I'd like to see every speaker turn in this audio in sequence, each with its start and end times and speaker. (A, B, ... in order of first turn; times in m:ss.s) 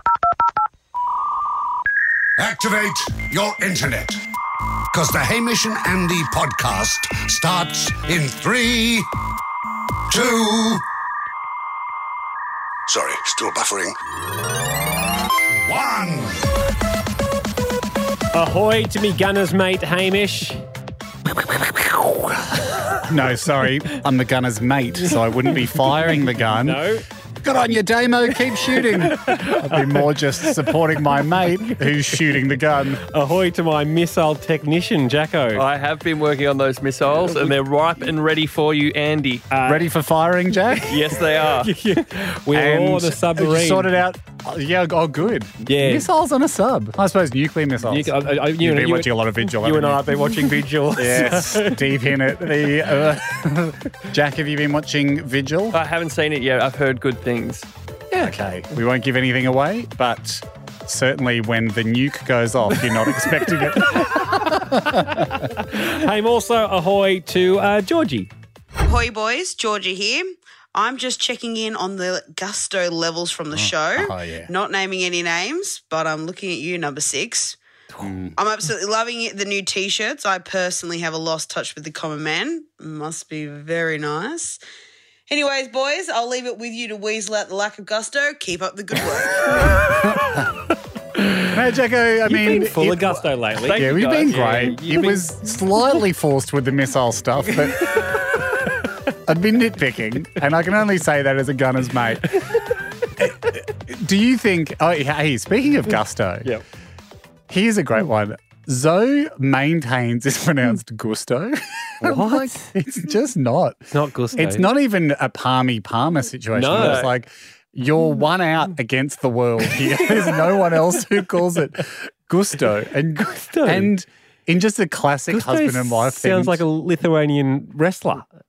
0:02.4-0:04.2 A
0:04.9-0:09.1 A
0:10.1-0:10.8 A
0:12.9-0:14.0 A
0:15.6-0:16.5 A
0:18.3-0:20.6 B
0:21.3-0:26.8 C
0:26.4-0:27.0 B
0:27.4-0:33.0 C
0:29.0-0:32.3 B
0:33.0-0:35.6 B
0:35.5-0:39.5 D
0:37.2-0:37.5 B
0:39.5-0:39.9 B
0:39.7-0:41.0 C
0:40.9-0:41.7 D
0:41.6-0:44.0 B
0:42.5-0:50.2 C
0:45.7-0:46.1 B
0:47.9-0:52.1 B
0:51.0-0:55.8 C
0:55.7-0:57.7 D
0:58.1-1:05.3 C
1:03.7-1:08.3 B
1:08.8-1:17.6 E
1:13.5-1:14.5 C
1:18.0-1:18.4 C
1:18.4-1:24.6 E
1:25.3-1:29.7 E
1:30.0-1:30.5 C
1:31.2-1:31.5 B
1:31.5-1:37.8 C
1:32.2-1:34.8 B
1:33.6-1:35.3 D
1:39.3-1:42.4 C
1:43.2-1:46.5 C
1:47.5-2:06.6 C
1:52.0-1:52.7 B
1:53.9-1:54.7 B
1:56.6-1:57.1 B
2:00.0-2:00.3 B
2:03.2-2:03.9 B
2:05.3-2:08.3 B